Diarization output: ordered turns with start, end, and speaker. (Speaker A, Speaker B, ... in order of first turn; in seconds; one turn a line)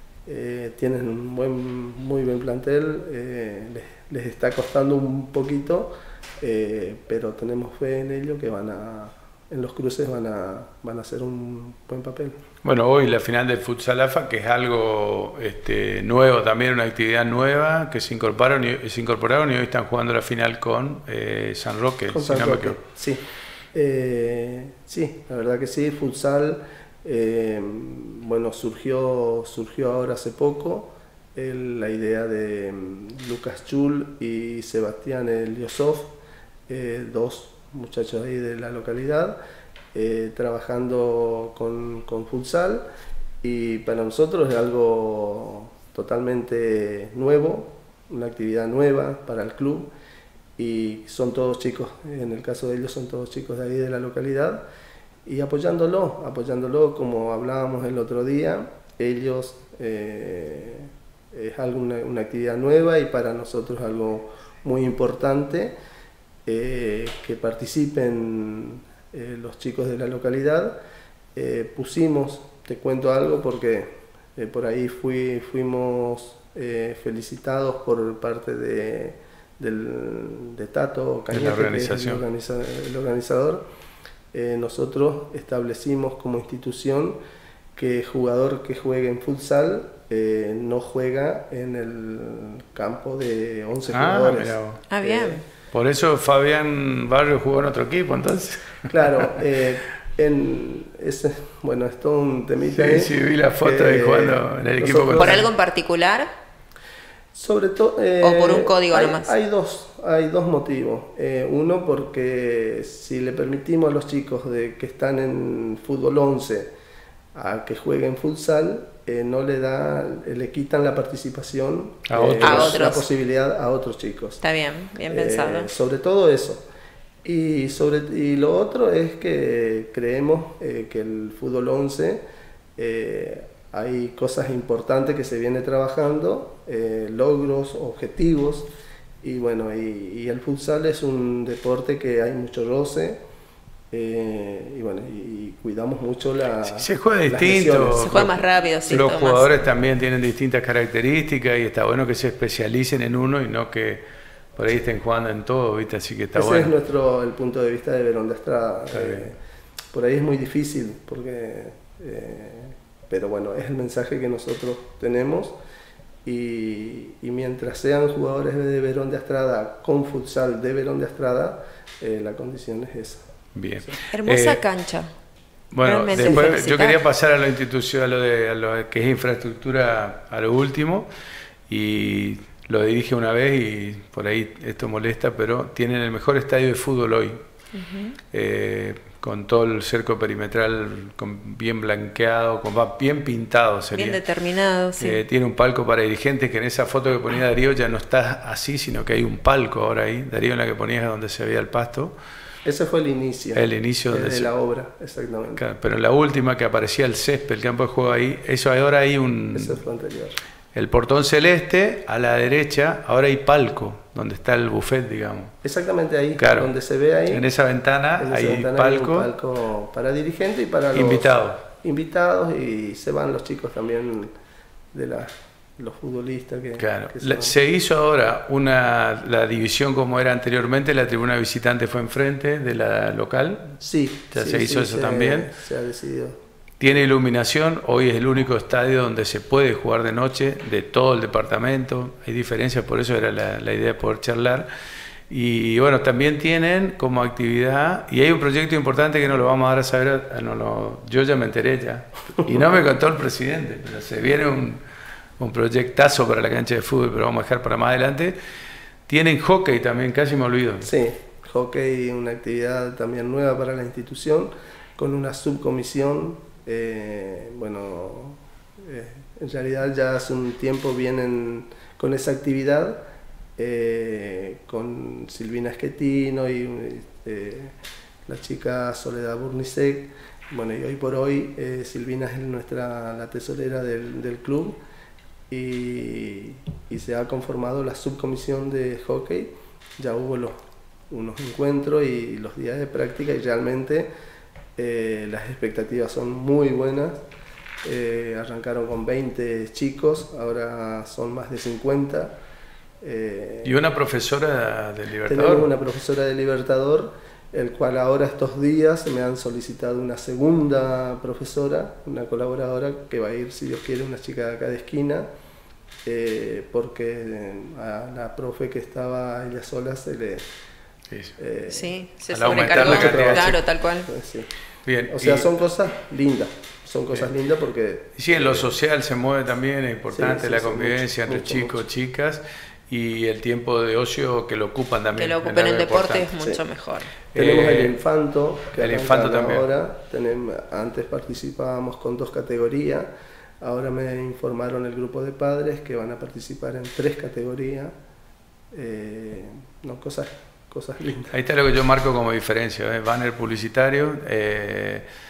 Speaker A: 0.2-12.4
Speaker B: 12.6-22.8
Speaker A: 22.1-36.1
Speaker A: 36.7-39.4
Speaker A: 39.9-42.8
Speaker A: 43.4-49.9
Speaker A: 50.6-54.6
Speaker A: 55.2-65.7
Speaker A: 66.5-70.8
Speaker A: 71.3-83.6
Speaker B: 81.3-82.2
Speaker A: 84.3-87.2
Speaker A: 87.8-95.4
Speaker B: 93.9-94.8
Speaker C: 94.9-95.4
Speaker B: 95.7-99.3
Speaker A: 98.9-105.5
Speaker B: 102.7-105.4
Speaker C: 105.2-106.3
Speaker A: 107.3-116.7
Speaker C: 108.2-109.3
Speaker A: 117.3-124.4
Speaker B: 122.1-122.8
Speaker C: 122.4-123.0
Speaker C: 124.4-125.7
Speaker A: 125.1-126.6
Speaker A: 127.2-132.2
Speaker A: 132.8-138.7
Speaker A: 139.2-143.2
Speaker A: 143.9-148.4
Speaker B: 146.7-154.0
Speaker C: 148.0-149.6
Speaker B: 154.6-156.7
Speaker A: 156.3-159.4
Speaker B: 158.9-159.3
Speaker A: 159.9-165.5
Speaker A: 166.2-173.2
Speaker B: 173.5-174.6
Speaker C: 174.1-175.1
Speaker B: 175.7-181.1
Speaker C: 175.8-177.0
Speaker A: 176.2-176.5
Speaker B: 181.7-187.4
Speaker C: 187.7-188.2
Speaker B: 188.3-194.2
Speaker C: 193.9-195.2
Speaker B: 195.0-202.1
Speaker A: 202.6-205.6
Speaker B: 203.5-204.5
Speaker B: 205.6-209.8
Speaker A: 209.5-210.4
Speaker B: 210.7-215.5
Speaker A: 215.6-217.5
Speaker B: 216.4-216.7
Speaker B: 217.3-219.3
Speaker A: 218.2-224.3
Speaker B: 220.9-221.6
Speaker A: 224.9-227.6
Speaker B: 226.8-233.8
Speaker A: 233.8-236.4
Speaker B: 234.3-235.5
Speaker B: 236.8-244.7
Speaker B: 245.3-254.8
Speaker B: 255.4-258.4
Speaker B: 259.1-260.9
Speaker A: 260.8-273.0
Speaker A: 273.6-277.7
Speaker A: 278.2-284.8
Speaker A: 285.5-290.6
Speaker A: 291.1-294.1
Speaker A: 294.8-297.2
Speaker A: 297.8-302.3
Speaker A: 303.0-303.8
Speaker B: 303.6-305.7
Speaker A: 305.2-315.3
Speaker A: 316.0-320.5
Speaker B: 321.1-321.4
Speaker A: 321.4-324.5
Speaker C: 321.7-324.1
Speaker B: 322.3-323.6
Speaker B: 324.8-325.5
Speaker A: 325.1-328.7
Speaker B: 328.1-336.3
Speaker A: 330.1-331.8
Speaker C: 335.1-337.1
Speaker B: 337.3-337.9
Speaker A: 337.3-343.1
Speaker B: 338.8-339.7
Speaker A: 343.6-347.9
Speaker A: 348.7-351.4
Speaker B: 351.3-355.0